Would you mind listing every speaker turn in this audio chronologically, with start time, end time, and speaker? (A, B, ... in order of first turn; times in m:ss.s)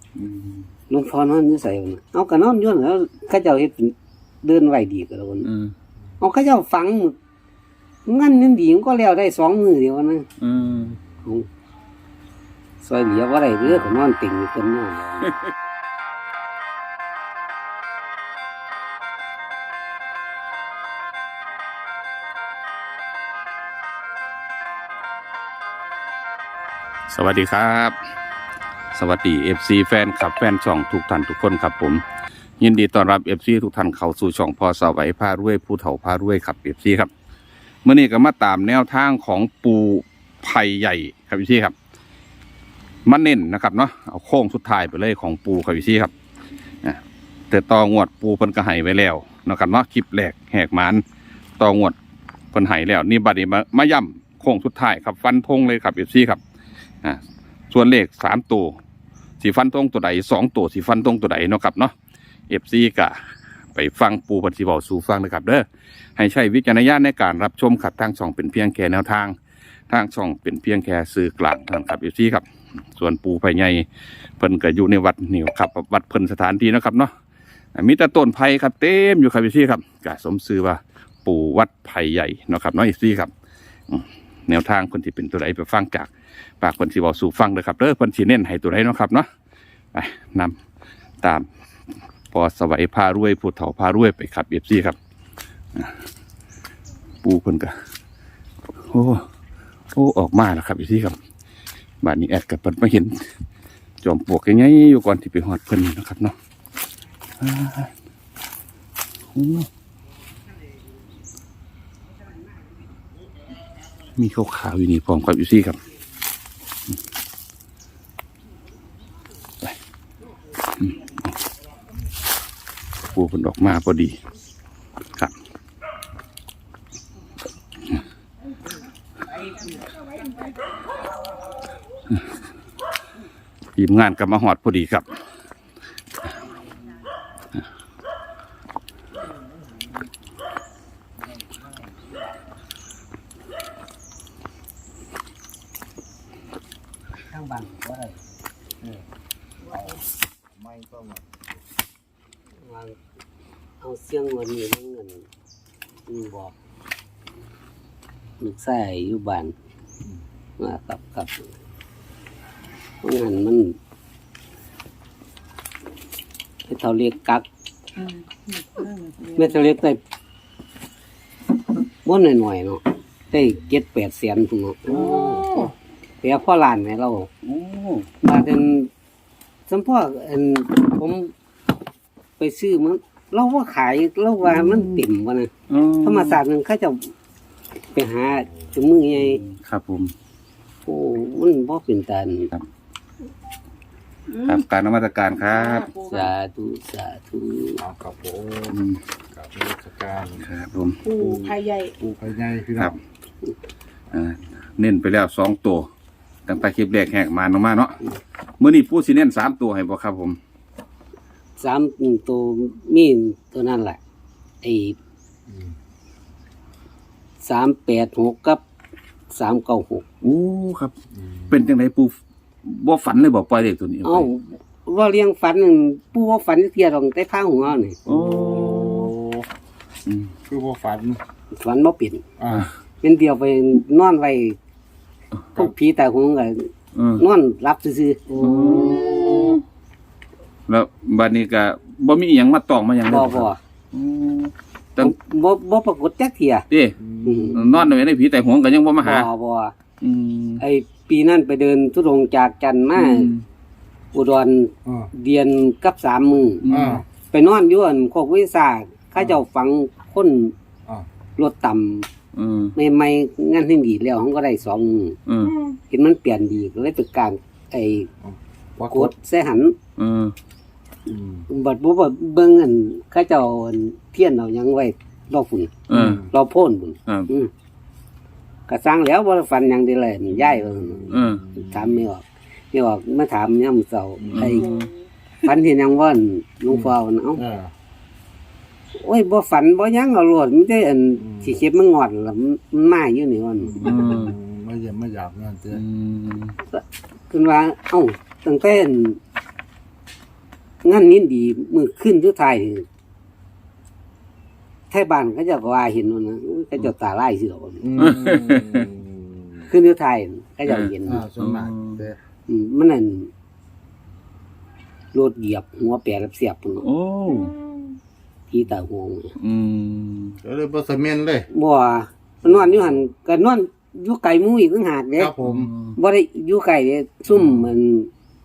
0:00.2-0:00.7 A
0:00.9-0:05.5 B
0:05.4-0:05.8 A
0:06.2-0:07.2 B
0:08.1-0:10.3 B
0:10.4-0:11.0 A
0:10.6-0:11.0 C
0:12.8-0:15.4 B
0:27.1-0:28.0 A
0:29.0-0:32.0 A
0:32.6-0:37.1 A
0:37.8-0:41.7 A
0:43.1-0:46.1 A
0:46.8-0:51.0 A
0:51.6-0:52.0 A
0:52.5-0:56.4 A
0:57.7-0:58.8 A
0:59.4-1:01.9 A
1:02.5-1:03.2 A
1:03.8-1:05.6 A
1:06.2-1:09.4 A
1:09.9-1:12.4 A
1:13.0-1:13.8 A
1:14.4-1:17.1 A
1:17.8-1:23.3 A
1:23.9-1:26.1 A
1:26.6-1:29.3 A
1:29.9-1:30.6 A
1:32.3-1:35.0 A
1:37.2-1:37.7 A
1:38.9-1:39.2 A
1:39.9-1:41.2 A
1:42.0-1:43.3 A
1:44.0-1:46.3 A
1:47.4-1:47.9 A
1:49.3-1:49.7 A
1:54.2-1:55.8 A
2:00.8-2:01.1 A
2:03.1-2:04.2 A
2:13.8-2:15.1 A
2:27.3-2:28.2 B
2:29.7-2:31.4 C
2:32.6-2:33.0 B
2:33.8-2:35.2 B
2:36.1-2:36.6 B
2:38.4-2:39.5 B
2:40.6-2:41.5 B
2:43.0-2:43.8 B
2:46.7-2:47.4 B
2:48.6-2:49.4 D
2:49.3-2:50.0 B
2:52.0-2:55.2 B
2:54.9-2:55.7 A
2:54.9-2:55.7 C
2:56.2-2:57.3 B
2:57.4-2:58.1 A
2:58.2-2:58.9 B
2:59.7-3:01.3 B
3:02.4-3:05.5 B
3:04.5-3:05.0 A
3:05.7-3:06.4 A
3:06.0-3:07.1 B
3:07.9-3:09.4 B
3:08.5-3:08.8 C
3:09.2-3:10.1 A
3:10.8-3:12.5 B
3:14.3-3:14.6 D
3:14.4-3:15.9 A
3:15.5-3:16.3 D
3:16.0-3:17.8 B
3:17.8-3:18.8 C
3:18.7-3:19.0 A
3:19.3-3:20.4 C
3:20.4-3:21.0 A
3:21.0-3:21.9 D
3:21.2-3:22.9 C
3:24.1-3:25.9 A
3:26.5-3:28.0 A
3:28.6-3:30.4 A
3:31.6-3:34.0 B
3:34.6-3:35.0 B
3:37.4-3:38.6 B
3:39.3-3:40.0 B
3:40.2-3:40.9 A
3:41.2-3:41.5 C
3:41.5-3:42.1 A
3:42.6-3:44.3 A
3:44.0-3:48.0 B
3:48.1-3:49.1 A
3:48.1-3:49.5 C
3:50.1-3:50.3 A
3:50.5-3:51.2 C
3:51.5-3:52.2 B
3:52.4-3:52.7 C
3:53.0-3:54.6 B
3:55.6-3:58.8 B
3:57.0-3:57.2 A
3:58.4-3:59.6 A
3:58.8-3:59.6 C
4:00.7-4:05.1 A
4:03.1-4:03.6 B
4:05.0-4:06.7 B
4:06.7-4:07.0 A
4:07.0-4:08.0 C
4:07.2-4:07.6 B
4:07.5-4:09.3 A
4:09.0-4:09.7 B
4:10.0-4:10.6 A
4:10.6-4:13.3 B
4:13.0-4:13.4 A
4:14.1-4:16.6 B
4:16.6-4:17.0 A
4:16.7-4:17.0 C
4:17.3-4:20.5 B
4:19.2-4:19.4 C
4:21.4-4:22.1 B
4:22.4-4:22.7 A
4:22.8-4:25.2 B
4:25.3-4:25.6 A
4:25.9-4:28.1 B
4:28.2-4:29.1 C
4:28.9-4:29.8 B
4:30.0-4:30.3 A
4:31.1-4:31.5 C
4:31.5-4:37.5 B
4:35.9-4:36.2 A
4:35.9-4:36.3 C
4:38.7-4:44.7 B
4:40.4-4:42.1 C
4:41.1-4:41.4 A
4:44.2-4:44.5 C
4:44.3-4:44.9 A
4:45.4-4:47.4 B
4:46.7-4:47.7 C
4:49.0-4:54.1 B
4:51.2-4:51.6 C
4:53.6-4:55.8 C
4:53.8-4:54.3 A
4:55.7-4:56.6 A
4:56.7-4:59.2 B
5:00.8-5:02.9 B
5:04.9-5:08.0 B
5:07.8-5:09.7 C
5:08.0-5:08.9 A
5:09.7-5:11.3 B
5:10.7-5:12.1 A
5:11.0-5:12.2 C
5:12.5-5:13.3 B
5:15.1-5:16.8 B
5:16.8-5:17.5 A
5:18.5-5:19.3 B
5:19.4-5:20.4 A
5:20.4-5:21.5 C
5:21.5-5:25.3 B
5:22.4-5:23.0 C
5:25.2-5:25.7 C
5:25.4-5:26.0 A
5:26.0-5:28.1 B
5:27.3-5:27.7 C